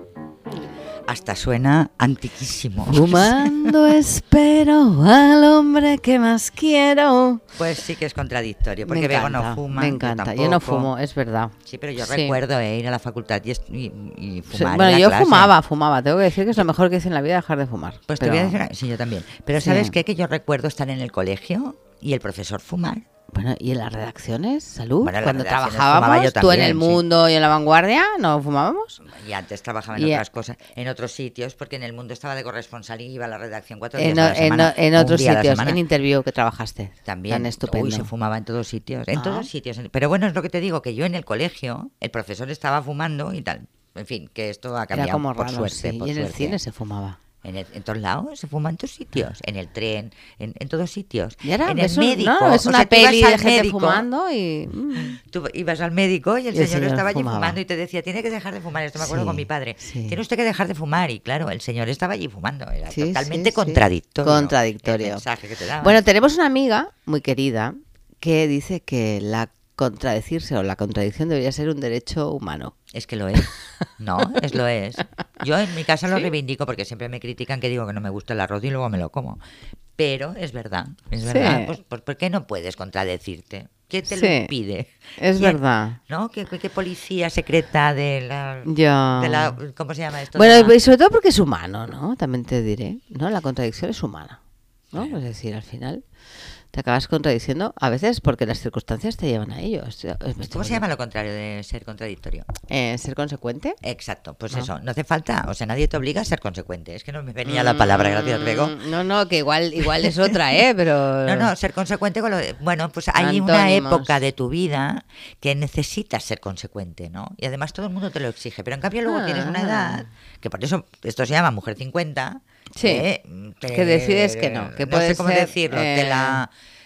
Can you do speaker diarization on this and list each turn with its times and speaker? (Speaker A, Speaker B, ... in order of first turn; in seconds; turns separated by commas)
Speaker A: 1.1-3.8, Speaker B: 2.9-7.4, Speaker A: 7.6-10.9, Speaker B: 8.8-12.4, Speaker A: 11.7-15.5, Speaker B: 14.5-18.6, Speaker A: 18.1-23.0, Speaker B: 19.6-20.0, Speaker B: 23.3-29.0, Speaker A: 25.0-27.0, Speaker A: 29.1-35.8, Speaker B: 29.9-30.2, Speaker B: 34.0-38.1, Speaker A: 37.1-46.6, Speaker B: 39.1-39.5, Speaker B: 44.9-47.2, Speaker A: 47.4-54.1, Speaker B: 51.4-55.2, Speaker A: 55.0-66.0, Speaker B: 56.5-57.6, Speaker B: 59.0-60.2, Speaker B: 62.9-65.2, Speaker B: 65.8-72.8, Speaker A: 72.9-79.4, Speaker A: 80.0-90.8, Speaker B: 81.2-81.8, Speaker B: 84.1-84.5, Speaker B: 85.2-86.0, Speaker B: 88.7-89.6, Speaker B: 90.3-94.4, Speaker B: 94.9-96.0, Speaker B: 96.7-100.8, Speaker A: 100.5-102.5, Speaker B: 102.7-103.8, Speaker A: 103.8-108.8, Speaker B: 107.5-111.5, Speaker A: 111.2-126.5, Speaker B: 113.2-114.2, Speaker B: 119.1-120.0, Speaker B: 122.8-123.1, Speaker B: 123.7-126.4